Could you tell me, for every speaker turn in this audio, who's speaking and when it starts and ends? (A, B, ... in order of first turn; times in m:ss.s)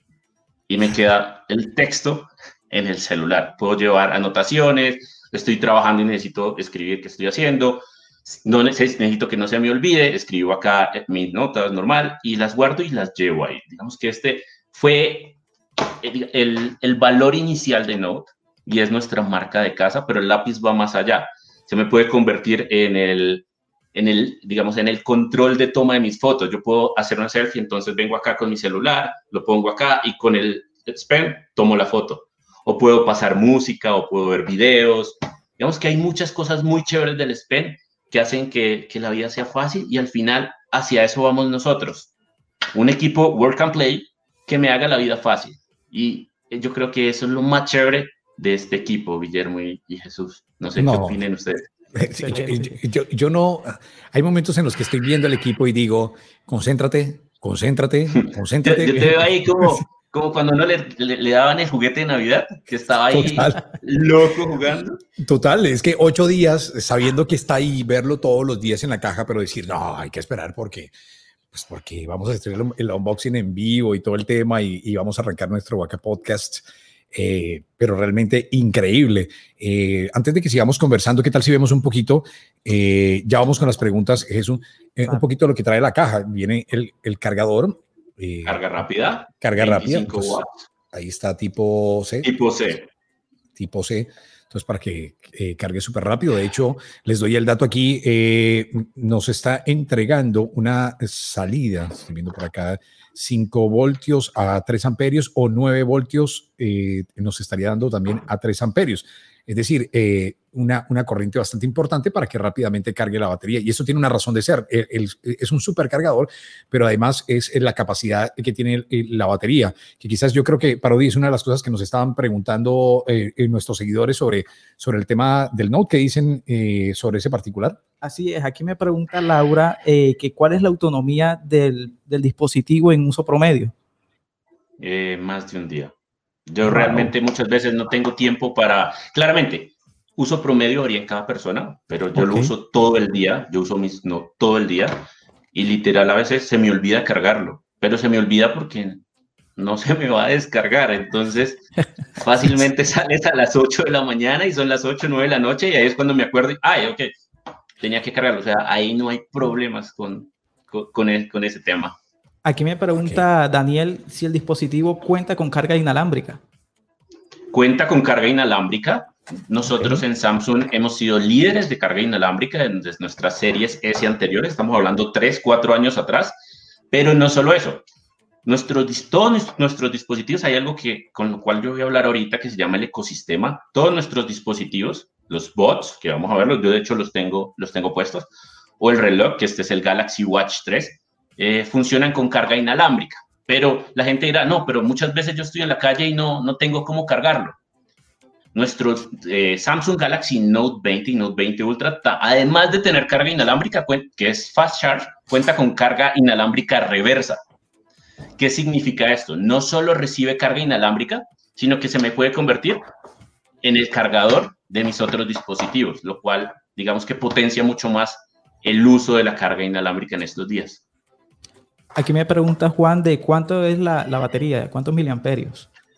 0:00.7-0:15.4 A
0:15.9-0:42.1 A
0:42.8-0:51.7 A
0:50.8-0:51.2 B
0:51.9-0:59.8 B
0:52.2-0:52.7 C
0:58.2-1:05.0 A
1:03.1-1:03.7 B
1:05.2-1:10.9 B
1:11.5-1:28.6 B
1:28.4-1:30.7 A
1:29.3-1:32.3 B
1:32.2-1:32.9 A
1:33.6-2:07.8 B
2:08.0-2:13.7 C
2:14.8-2:15.9 A
2:16.5-2:29.0 A
2:16.7-2:17.1 C
2:22.2-2:22.5 C
2:29.6-2:37.1 A
2:37.8-2:42.0 A
2:42.4-2:46.4 C
2:43.0-2:43.2 B
2:47.5-2:56.4 A
2:56.9-2:57.8 A
2:58.4-3:17.6 A
3:18.5-3:27.4 A
3:28.4-3:32.8 A
3:33.6-3:40.8 A
3:42.0-3:45.7 C